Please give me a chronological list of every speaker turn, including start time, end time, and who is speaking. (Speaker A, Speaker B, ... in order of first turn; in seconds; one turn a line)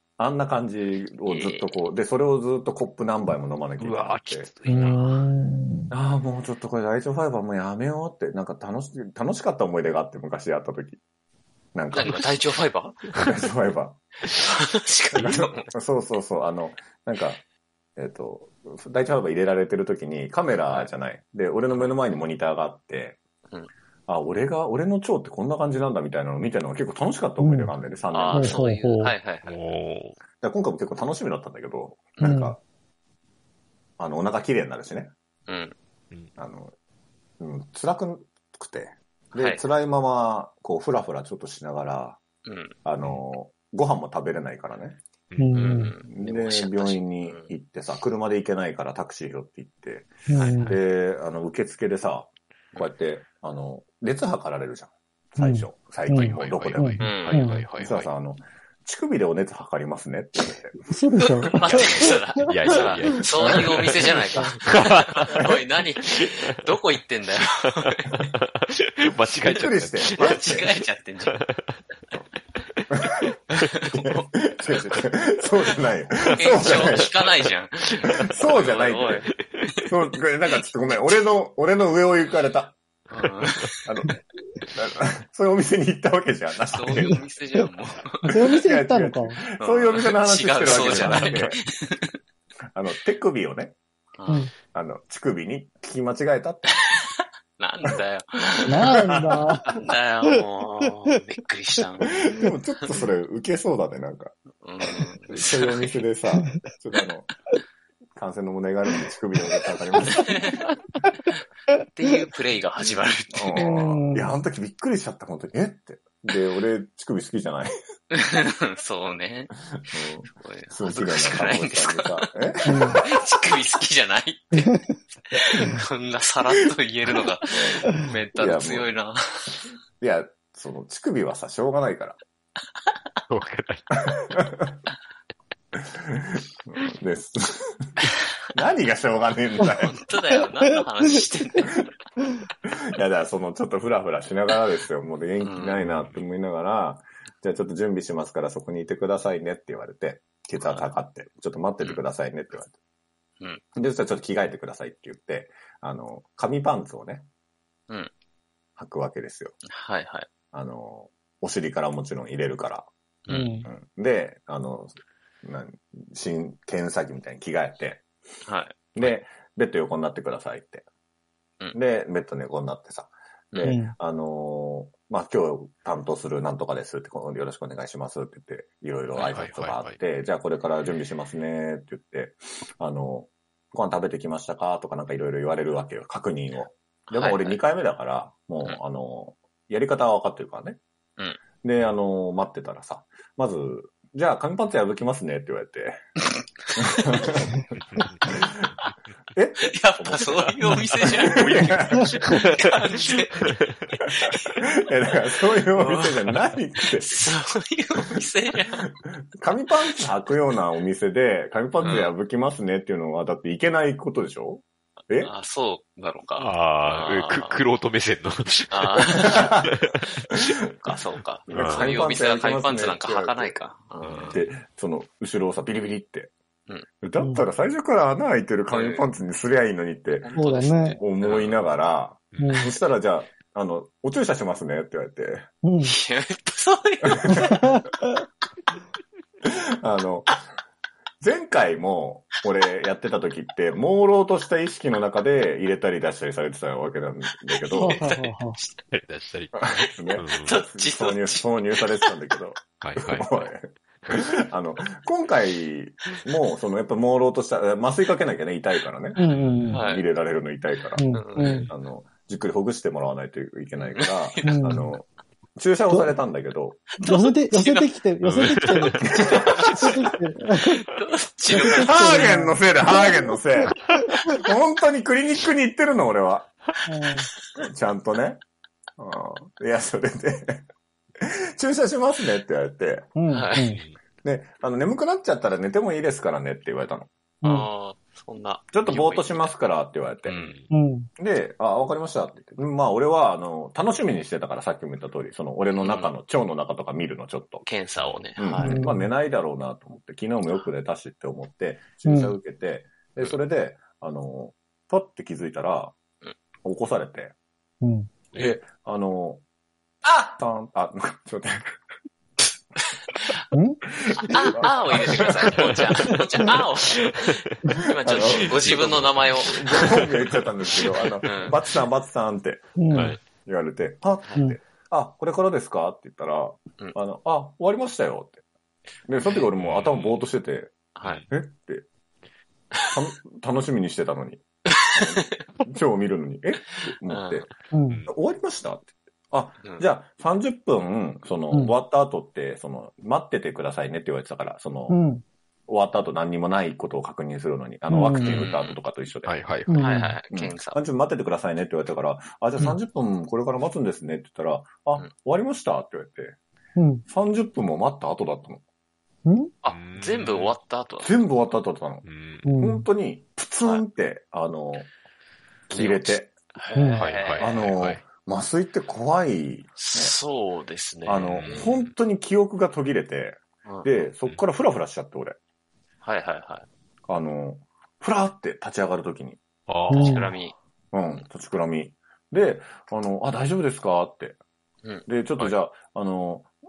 Speaker A: 0.2-4.5
Speaker B: 1.2-1.7
Speaker C: 3.8-4.9
Speaker B: 4.6-5.0
Speaker D: 4.7-5.9
Speaker A: 5.9-11.0
Speaker A: 11.7-12.3
Speaker B: 11.9-13.0
Speaker A: 13.1-14.0
Speaker B: 14.3-15.7
Speaker A: 15.1-17.4
Speaker A: 18.0-23.2
Speaker A: 24.1-28.6
Speaker D: 27.4-27.7
Speaker B: 28.1-29.6
Speaker D: 28.3-29.1
Speaker C: 29.4-30.2
Speaker A: 30.4-32.6
Speaker D: 32.2-32.5
Speaker A: 34.0-35.1
Speaker B: 35.5-35.7
Speaker A: 36.4-36.7
Speaker A: 37.4-42.2
Speaker B: 39.3-39.6
Speaker B: 42.4-42.8
Speaker A: 42.8-45.0
Speaker C: 45.3-45.8
Speaker D: 45.4-45.9
Speaker B: 45.5-47.5
Speaker A: 46.1-56.9
Speaker D: 50.3-50.8
Speaker B: 50.3-50.8
Speaker D: 55.4-57.7
Speaker C: 56.1-58.1
Speaker B: 57.0-57.6
Speaker A: 57.8-60.9
Speaker D: 60.9-62.6
Speaker B: 61.4-68.2
Speaker C: 61.6-65.5
Speaker C: 68.1-70.7
Speaker A: 69.4-70.7
Speaker B: 70.2-71.4
Speaker C: 71.3-71.8
Speaker B: 73.6-75.2
Speaker A: 73.9-77.2
Speaker C: 76.2-76.9
Speaker B: 76.3-79.3
Speaker C: 78.1-78.8
Speaker A: 78.2-79.3
Speaker A: 79.8-82.8
Speaker C: 83.1-83.7
Speaker B: 83.1-83.8
Speaker A: 83.8-84.2
Speaker A: 84.7-87.2
Speaker B: 86.7-88.3
Speaker A: 88.2-91.6
Speaker D: 88.3-89.4
Speaker B: 89.6-92.2
Speaker C: 91.0-91.3
Speaker A: 92.7-93.7
Speaker B: 94.2-94.5
Speaker A: 94.7-97.0
Speaker B: 97.6-103.0
Speaker D: 98.7-99.8
Speaker A: 98.8-99.4
Speaker A: 102.2-104.3
Speaker B: 104.6-106.0
Speaker A: 105.3-107.3
Speaker A: 108.2-110.7
Speaker B: 110.0-110.6
Speaker B: 111.9-113.8
Speaker A: 113.3-117.7
Speaker D: 113.5-114.3
Speaker B: 118.1-129.6
Speaker A: 119.9-123.0
Speaker D: 122.7-123.0
Speaker A: 127.5-128.9
Speaker A: 130.0-132.2
Speaker C: 133.3-133.9
Speaker A: 134.3-134.7
Speaker A: 135.7-137.9
Speaker A: 138.5-140.0
Speaker B: 139.6-141.9
Speaker A: 142.7-152.7
Speaker B: 145.4-145.9
Speaker C: 145.9-146.2
Speaker B: 150.6-150.9
Speaker A: 153.8-157.2
Speaker A: 158.8-159.5
Speaker B: 159.7-160.3
Speaker A: 160.5-162.9
Speaker B: 163.3-163.7
Speaker D: 163.3-163.7
Speaker A: 163.7-168.1
Speaker B: 168.4-169.1
Speaker A: 168.9-170.8
Speaker A: 171.7-190.8
Speaker B: 173.5-173.8
Speaker D: 173.6-173.9
Speaker C: 179.2-179.9
Speaker B: 187.1-187.6
Speaker A: 191.6-196.0
Speaker A: 196.8-197.6
Speaker A: 199.3-202.1
Speaker B: 199.7-204.6
Speaker C: 200.7-201.6
Speaker A: 204.7-207.3
Speaker B: 205.7-206.4
Speaker B: 207.0-208.8
Speaker A: 208.9-215.3
Speaker B: 211.8-212.1
Speaker B: 215.1-217.6
Speaker C: 216.4-220.5
Speaker B: 218.7-219.5
Speaker A: 219.3-219.7
Speaker B: 220.8-224.4
Speaker C: 221.5-221.9
Speaker A: 221.5-223.6
Speaker C: 224.0-224.5
Speaker A: 224.3-226.3
Speaker A: 227.0-230.4
Speaker D: 227.2-227.4
Speaker B: 228.7-229.1
Speaker B: 230.2-231.6
Speaker D: 230.4-231.0
Speaker A: 231.0-235.5
Speaker C: 232.3-232.7
Speaker D: 232.4-232.7
Speaker D: 235.6-235.9
Speaker B: 235.8-237.7
Speaker A: 237.2-237.7
Speaker D: 237.3-237.9
Speaker A: 239.8-240.4
Speaker A: 241.2-248.0
Speaker B: 247.5-248.8
Speaker D: 247.7-248.6
Speaker C: 248.9-249.5
Speaker A: 249.5-261.0
Speaker C: 250.2-250.6
Speaker B: 250.3-252.2
Speaker C: 252.8-253.5
Speaker D: 259.1-259.8
Speaker C: 259.3-259.8
Speaker B: 259.7-260.1
Speaker D: 260.9-261.7
Speaker B: 261.1-261.7
Speaker A: 261.6-265.0
Speaker B: 263.8-264.8
Speaker D: 264.4-264.9
Speaker A: 265.6-266.9
Speaker D: 265.9-266.1
Speaker B: 267.0-268.0
Speaker D: 267.0-270.8
Speaker C: 268.2-269.0
Speaker A: 269.1-269.9
Speaker B: 269.2-269.9
Speaker B: 270.6-272.4
Speaker D: 271.5-273.4
Speaker A: 271.8-276.5
Speaker D: 276.9-277.3
Speaker A: 277.6-278.4
Speaker A: 279.0-280.6
Speaker A: 281.2-283.1
Speaker D: 283.1-283.8
Speaker B: 283.3-283.7
Speaker C: 283.6-283.9
Speaker A: 284.2-287.1
Speaker D: 287.4-287.7
Speaker B: 287.4-289.5
Speaker A: 288.7-290.4
Speaker B: 290.2-290.6
Speaker C: 290.4-290.7
Speaker D: 290.7-291.1
Speaker A: 291.2-297.6
Speaker B: 295.7-296.1
Speaker B: 297.6-298.8
Speaker C: 298.0-298.2
Speaker A: 298.4-305.9
Speaker D: 298.6-299.1
Speaker D: 302.0-302.4
Speaker A: 306.6-307.3
Speaker D: 307.8-308.1
Speaker A: 308.3-309.4
Speaker A: 310.0-311.7
Speaker D: 313.5-313.8
Speaker A: 313.9-316.0
Speaker B: 314.2-320.1
Speaker A: 318.0-328.4
Speaker C: 318.6-318.9
Speaker B: 321.2-321.6
Speaker D: 322.8-323.1
Speaker C: 322.9-323.2
Speaker A: 329.1-330.7
Speaker B: 329.2-329.5
Speaker C: 329.6-330.0
Speaker B: 330.9-331.2
Speaker A: 331.3-331.8
Speaker A: 332.9-337.5
Speaker B: 335.0-335.2
Speaker B: 337.1-337.5
Speaker D: 337.7-338.1
Speaker A: 338.1-345.0
Speaker B: 339.6-339.9
Speaker D: 341.5-341.8
Speaker D: 344.9-345.2
Speaker A: 345.7-349.3
Speaker D: 347.9-348.5
Speaker B: 348.1-348.8
Speaker C: 349.2-350.0
Speaker D: 349.7-350.1
Speaker B: 349.8-350.8
Speaker A: 350.3-356.4
Speaker D: 356.8-357.0
Speaker A: 357.1-358.6
Speaker D: 359.2-359.5
Speaker B: 359.6-361.2
Speaker C: 359.7-360.5
Speaker A: 361.0-362.1
Speaker C: 362.0-362.5
Speaker D: 362.4-362.9
Speaker A: 362.6-364.9
Speaker A: 365.7-366.3
Speaker B: 365.7-367.7
Speaker D: 366.7-367.1
Speaker C: 367.0-368.0
Speaker A: 367.4-370.1
Speaker B: 369.8-371.7
Speaker A: 371.0-375.3
Speaker C: 371.1-371.9
Speaker B: 373.6-374.1
Speaker B: 376.0-376.6
Speaker A: 377.1-379.4
Speaker C: 379.7-380.3
Speaker B: 379.9-380.5
Speaker D: 379.9-380.3
Speaker A: 380.9-384.4
Speaker B: 384.8-385.6
Speaker A: 385.1-386.5